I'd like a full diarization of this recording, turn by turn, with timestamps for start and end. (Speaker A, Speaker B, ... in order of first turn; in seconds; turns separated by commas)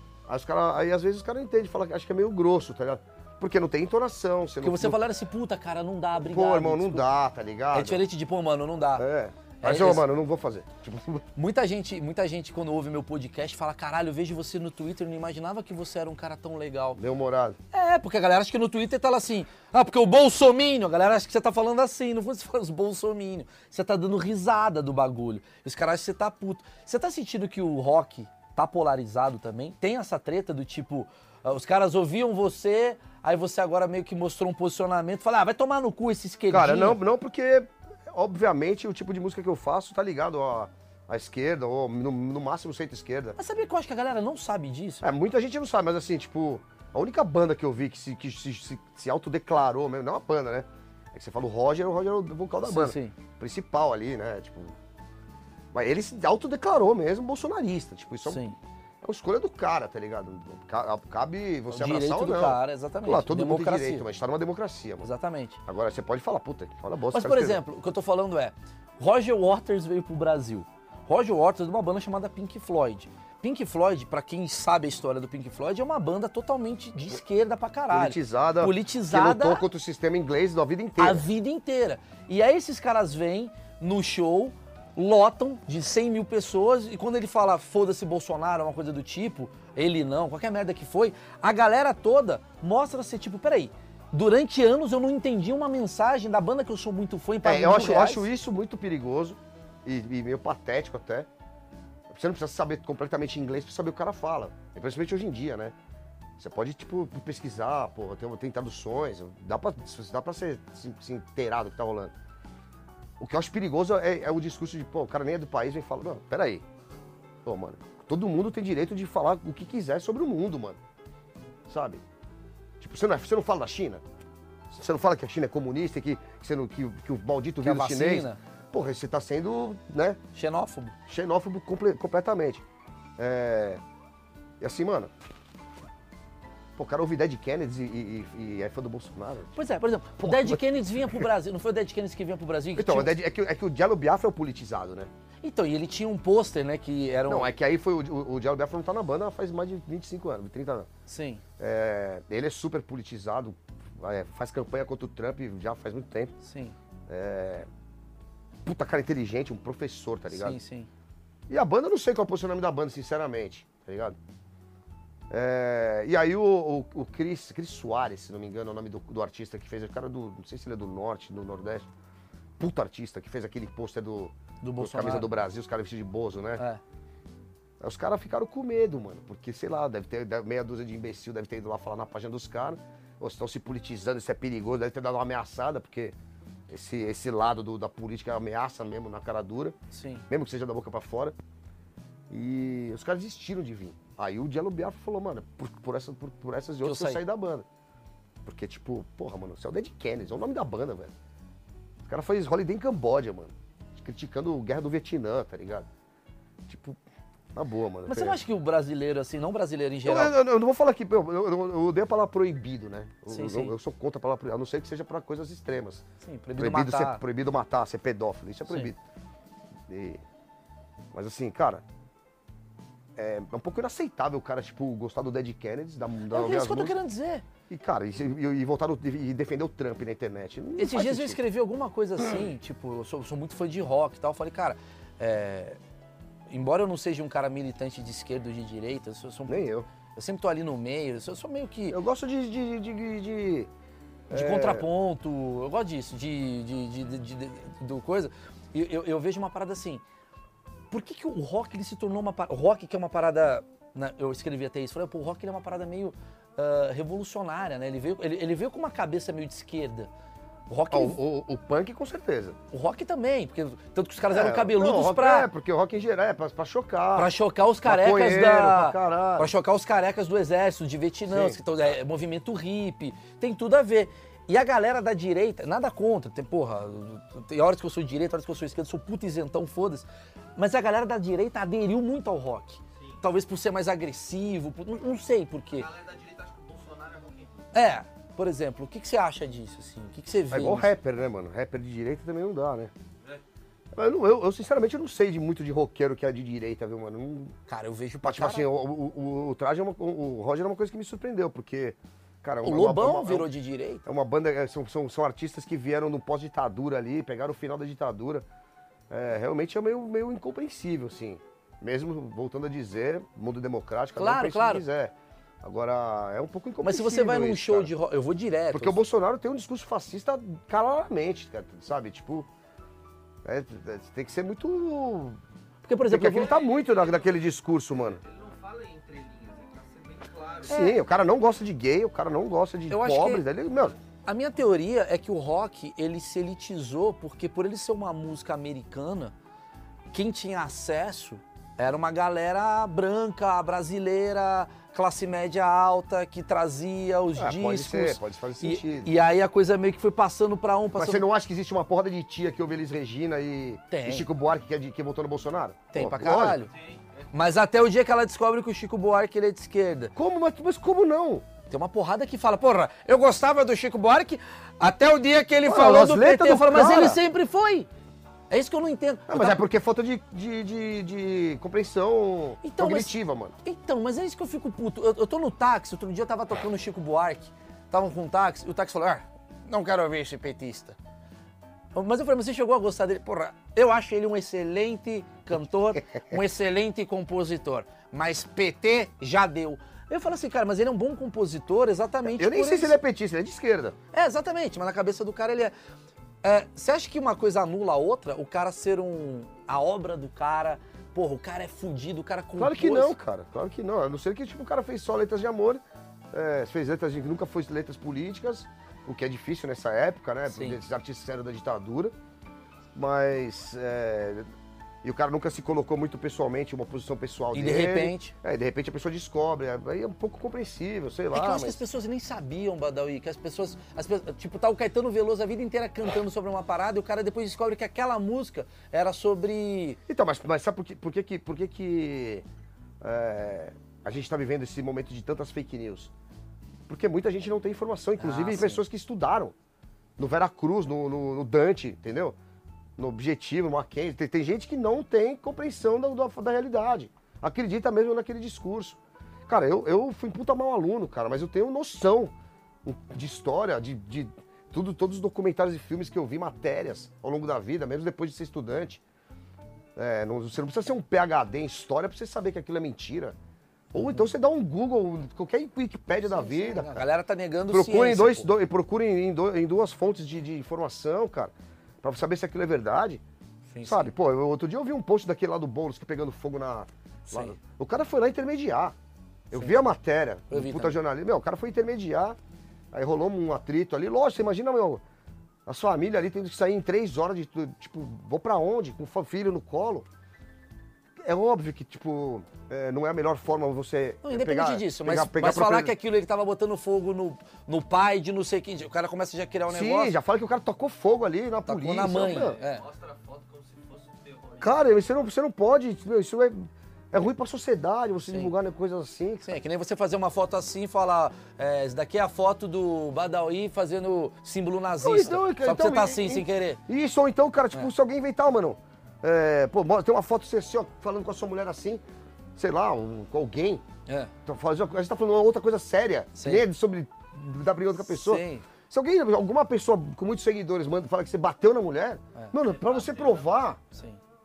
Speaker A: 0.3-5.0, Speaker B: 4.6-7.1, Speaker A: 6.2-8.0, Speaker B: 7.7-9.1, Speaker A: 9.0-11.2, Speaker B: 9.6-10.1, Speaker B: 11.4-17.0, Speaker A: 17.0-17.6, Speaker B: 17.7-37.0, Speaker A: 36.5-43.4, Speaker B: 43.4-45.1, Speaker A: 45.0-54.8, Speaker B: 52.6-53.1, Speaker A: 55.7-58.5, Speaker B: 58.2-58.6, Speaker A: 59.0-65.1, Speaker B: 61.7-64.0, Speaker B: 65.0-65.6, Speaker A: 65.7-67.6, Speaker B: 67.1-79.6, Speaker A: 77.9-81.2, Speaker B: 81.0-98.3, Speaker A: 97.4-101.3, Speaker A: 102.1-105.8, Speaker A: 106.4-112.1, Speaker A: 113.2-116.7, Speaker A: 117.4-120.8, Speaker A: 121.7-122.0, Speaker A: 122.8-124.0, Speaker A: 124.7-130.2, Speaker B: 127.6-128.4, Speaker B: 130.3-131.0, Speaker A: 131.1-132.6, Speaker A: 133.2-133.8, Speaker A: 134.6-135.1, Speaker A: 136.8-139.6, Speaker B: 139.6-143.2, Speaker A: 140.2-141.3, Speaker A: 142.8-145.1, Speaker B: 145.4-147.5, Speaker A: 147.3-150.9, Speaker B: 151.1-151.4, Speaker A: 151.6-156.3, Speaker B: 156.4-156.8, Speaker A: 157.1-157.7, Speaker A: 158.6-160.6, Speaker B: 160.3-160.9, Speaker A: 161.5-164.2, Speaker A: 165.3-171.9, Speaker A: 172.6-176.6, Speaker B: 174.6-175.3, Speaker A: 177.8-186.2, Speaker A: 186.7-189.8, Speaker B: 189.9-190.3, Speaker A: 190.3-191.4, Speaker A: 192.3-197.7, Speaker B: 196.8-197.2, Speaker A: 198.4-201.1, Speaker A: 202.1-205.9, Speaker A: 206.7-207.0, Speaker A: 207.6-208.4, Speaker B: 208.1-210.4, Speaker A: 210.1-216.1, Speaker B: 213.3-213.8, Speaker B: 216.2-217.2, Speaker A: 216.6-219.0, Speaker A: 219.9-220.2, Speaker A: 221.1-221.8, Speaker A: 223.2-226.9, Speaker B: 226.3-227.4, Speaker A: 227.7-231.4, Speaker B: 230.8-235.8, Speaker B: 236.5-242.0, Speaker A: 239.5-239.9, Speaker A: 241.9-243.7, Speaker A: 244.3-244.9, Speaker B: 244.3-250.0, Speaker B: 250.9-260.1, Speaker B: 260.7-261.2, Speaker A: 260.9-262.6, Speaker B: 262.7-265.5, Speaker A: 264.3-267.3, Speaker B: 267.2-280.1, Speaker A: 267.9-269.5, Speaker A: 271.3-271.6, Speaker B: 280.6-285.9, Speaker C: 285.7-287.7, Speaker B: 287.7-290.9, Speaker A: 290.5-292.9, Speaker A: 293.9-297.6, Speaker B: 297.7-298.7, Speaker A: 298.2-303.5, Speaker B: 302.6-304.0, Speaker A: 304.0-308.5, Speaker A: 309.1-317.9, Speaker B: 314.2-314.8, Speaker B: 316.8-319.0, Speaker A: 318.7-322.5, Speaker A: 323.4-325.4, Speaker B: 325.9-326.5, Speaker A: 326.1-328.2, Speaker C: 326.4-331.0, Speaker A: 330.6-334.0, Speaker B: 330.7-331.0, Speaker B: 332.9-333.4, Speaker B: 334.2-339.3, Speaker B: 340.1-351.2, Speaker A: 347.4-349.1, Speaker A: 351.0-356.6, Speaker B: 353.9-354.3, Speaker B: 355.9-356.7, Speaker C: 356.7-357.3, Speaker B: 357.3-360.1, Speaker A: 360.1-361.5, Speaker B: 361.7-367.9, Speaker A: 365.6-367.2, Speaker B: 368.5-369.6, Speaker A: 369.3-373.6, Speaker B: 372.6-381.0, Speaker B: 381.9-393.0, Speaker A: 392.3-394.0, Speaker B: 394.1-395.7, Speaker B: 396.4-403.1, Speaker A: 402.6-412.1, Speaker B: 410.5-410.8, Speaker A: 412.9-414.5, Speaker A: 415.0-421.8, Speaker B: 417.5-418.3, Speaker B: 421.3-430.0, Speaker A: 430.1-432.4, Speaker A: 433.0-436.1, Speaker A: 436.9-439.5, Speaker B: 438.2-438.8, Speaker A: 440.2-442.4, Speaker A: 443.0-452.3, Speaker A: 452.8-459.0, Speaker A: 460.0-463.4, Speaker A: 463.9-467.1, Speaker B: 464.0-464.2, Speaker B: 466.3-468.5, Speaker A: 467.7-473.2, Speaker B: 473.7-474.1, Speaker A: 473.8-478.9, Speaker B: 477.3-477.6, Speaker A: 479.5-482.4, Speaker B: 479.5-479.8, Speaker B: 480.5-481.0, Speaker A: 482.9-485.0, Speaker A: 485.7-490.1, Speaker A: 491.2-495.9, Speaker B: 494.2-500.2, Speaker A: 499.7-502.6, Speaker B: 501.7-502.8, Speaker C: 502.2-504.8, Speaker A: 504.6-509.5, Speaker B: 509.4-516.8, Speaker A: 515.0-522.0, Speaker A: 522.6-523.9, Speaker B: 524.1-524.3, Speaker A: 524.5-533.8, Speaker B: 526.4-526.7, Speaker B: 528.1-528.6, Speaker C: 532.6-533.6, Speaker B: 533.9-534.2